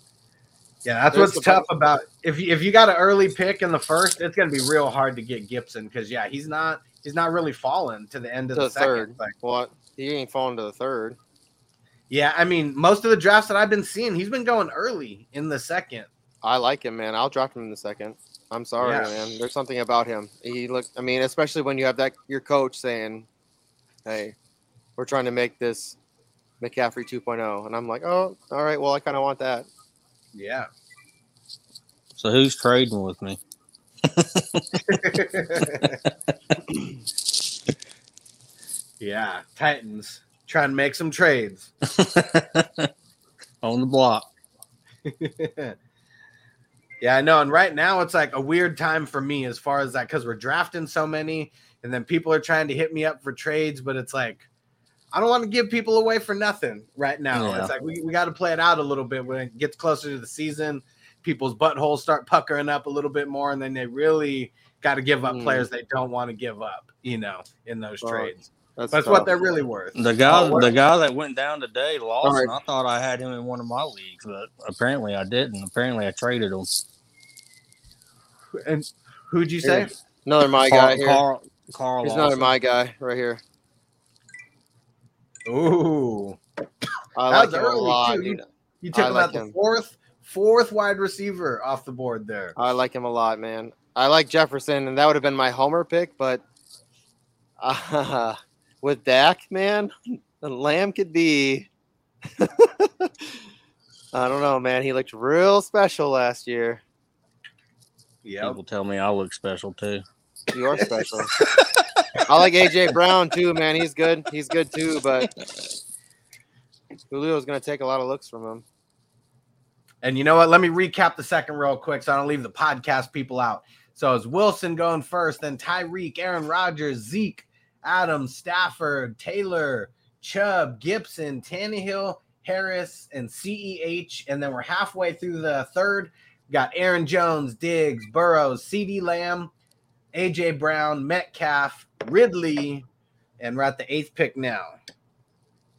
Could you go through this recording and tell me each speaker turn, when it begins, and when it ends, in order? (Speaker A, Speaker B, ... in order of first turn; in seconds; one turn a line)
Speaker A: 0.8-9.3
Speaker B: 1.1-1.7
Speaker B: 8.5-11.2
Speaker A: 12.1-16.1
Speaker B: 16.4-23.3
Speaker A: 18.8-19.1
Speaker B: 24.0-24.3
Speaker B: 25.0-26.0
Speaker B: 26.6-29.7
Speaker A: 30.3-30.7
Speaker C: 32.1-33.4
Speaker C: 34.1-34.8
Speaker A: 34.9-36.0
Speaker A: 39.0-41.7
Speaker C: 42.0-42.9
Speaker C: 43.6-44.3
Speaker A: 45.0-45.8
Speaker A: 47.0-54.5
Speaker A: 55.1-70.7
Speaker C: 57.3-57.7
Speaker B: 65.2-65.7
Speaker B: 68.0-69.3
Speaker C: 69.9-76.7
Speaker B: 72.2-72.5
Speaker A: 78.5-79.9
Speaker B: 79.6-81.2
Speaker C: 80.6-82.5
Speaker B: 82.0-83.4
Speaker A: 85.5-86.4
Speaker B: 87.2-89.5
Speaker A: 87.3-92.5
Speaker B: 92.5-96.4
Speaker B: 97.6-101.7
Speaker B: 102.4-103.1
Speaker B: 104.1-106.8
Speaker A: 108.2-108.6
Speaker C: 108.4-110.0
Speaker B: 110.5-111.3
Speaker B: 112.3-115.3
Speaker B: 117.1-118.6
Speaker A: 120.0-139.5
Speaker A: 140.1-142.8
Speaker A: 143.4-144.8